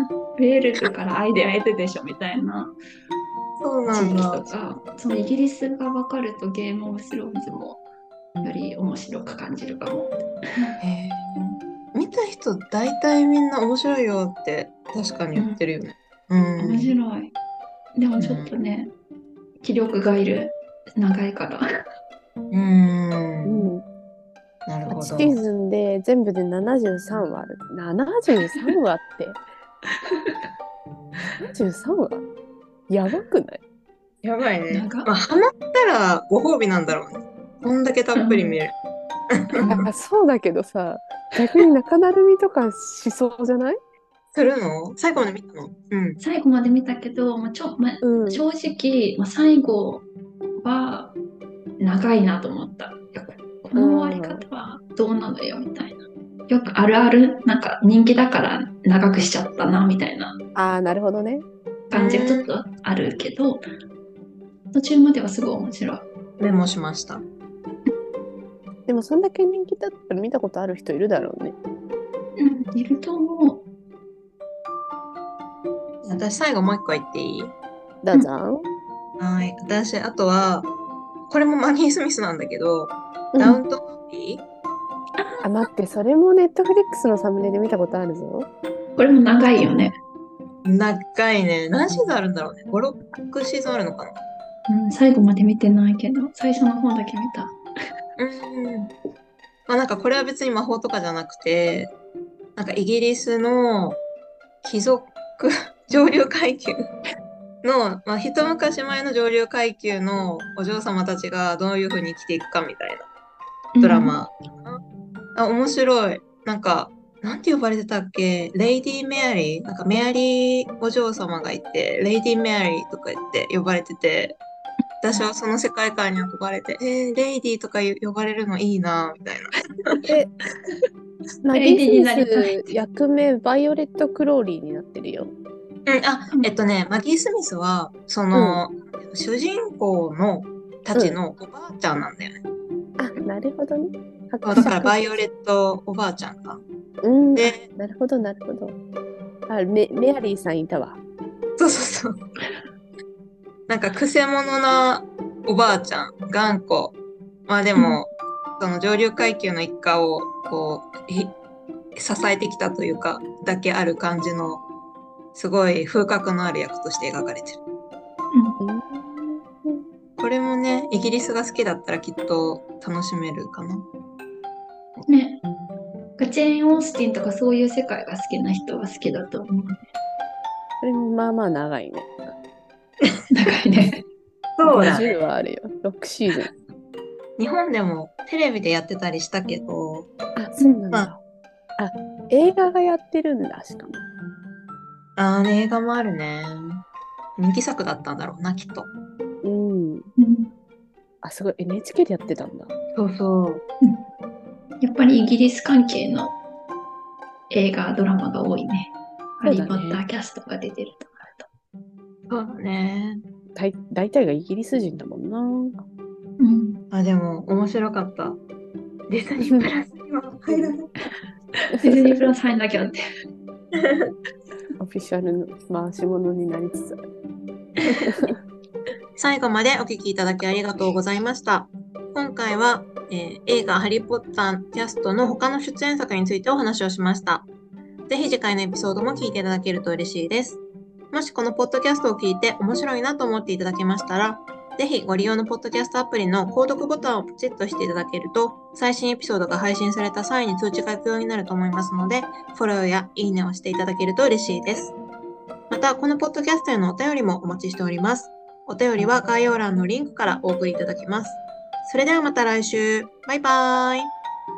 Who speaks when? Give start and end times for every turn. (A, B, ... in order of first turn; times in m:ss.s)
0:00.4-0:02.7 A
0:03.6-0:04.5 B
0:03.9-0:07.8 A
0:08.4-0:10.8 A
0:10.8-0:17.0 B
0:16.6-0:17.3 A
0:18.0-0:18.9 A
0:18.2-0:18.5 B
0:19.6-0:21.6 A
0:22.5-0:23.7 B
0:23.4-0:23.8 C
0:24.7-0:25.4 B
0:24.9-0:29.4 C
0:30.0-0:30.5 A
0:31.5-0:32.2 C
0:32.9-0:33.6 C
0:34.2-0:38.7 B
0:34.7-0:35.1 A
0:38.2-0:38.6 A
0:39.3-0:39.7 B
0:39.6-0:39.9 A
0:39.7-0:43.8 C
0:44.3-0:46.2 B
0:46.2-0:50.1 A
0:48.0-0:48.4 C
0:50.6-0:51.2 A
0:51.8-1:00.4 A
0:53.8-0:54.5 C
1:00.6-1:01.5 C
1:01.9-1:03.6 A
1:01.9-1:02.5 B
1:04.7-1:06.0 A
1:06.4-1:07.2 B
1:08.9-1:11.6 C
1:12.4-1:13.7 A
1:16.0-1:17.5 B
1:18.0-1:18.7 C
1:19.2-1:20.7 B
1:21.3-1:24.4 B
1:23.3-1:23.6 C
1:25.2-1:25.4 A
1:25.4-1:28.5 C
1:29.0-1:30.0 A
1:30.6-1:34.2 B
1:34.7-1:37.6 A
1:38.2-1:38.9 B
1:39.7-1:41.9 B
1:42.6-1:44.0 B
1:44.6-1:46.9 B
1:47.6-1:53.1 B
1:53.8-1:54.2 A
1:53.8-1:54.8 B
1:55.4-2:04.4 B
2:05.0-2:10.0 B
2:11.4-2:15.3 C
2:11.5-2:12.7 A
2:15.9-2:22.4 B
2:18.3-2:18.6 C
2:23.0-2:25.2 C
2:24.4-2:26.6 B
2:27.0-2:28.8 C
2:27.4-2:27.7 B
2:29.5-2:31.0 C
2:31.6-2:32.2 B
2:33.7-2:37.0 B
2:37.5-2:41.4 B
2:37.8-2:38.0 A
2:42.0-2:44.6 B
2:45.4-2:47.6 B
2:48.3-2:48.6 A
2:48.6-2:49.8 C
2:50.2-2:53.9 B
2:55.1-2:55.4 A
2:56.2-2:59.8 A
3:00.8-3:02.1 C
3:03.3-3:04.0 A
3:04.6-3:05.1 B
3:04.7-3:06.5 C
3:04.8-3:05.1 A
3:07.4-3:10.1 B
3:10.4-3:11.2 C
3:11.8-3:14.0 C
3:15.2-3:16.8 B
3:17.4-3:18.9 B
3:19.4-3:20.1 C
3:20.2-3:20.5 A
3:21.2-3:22.7 C
3:22.9-3:23.6 B
3:24.8-3:26.4 A
3:27.5-3:31.5 A
3:29.4-3:30.0 C
3:32.3-3:33.2 B
3:33.6-3:35.8 C
3:36.4-3:36.8 A
3:36.9-3:38.4 B
3:39.1-3:40.9 B
3:39.4-3:39.7 C
3:41.7-3:43.0 A
3:41.8-3:42.3 C
3:43.7-3:44.1 B
3:44.8-3:47.0 C
3:48.0-3:48.4 C
3:49.2-3:57.5 B
3:58.1-4:00.6 B
4:01.1-4:15.0 B
4:15.7-4:24.1 B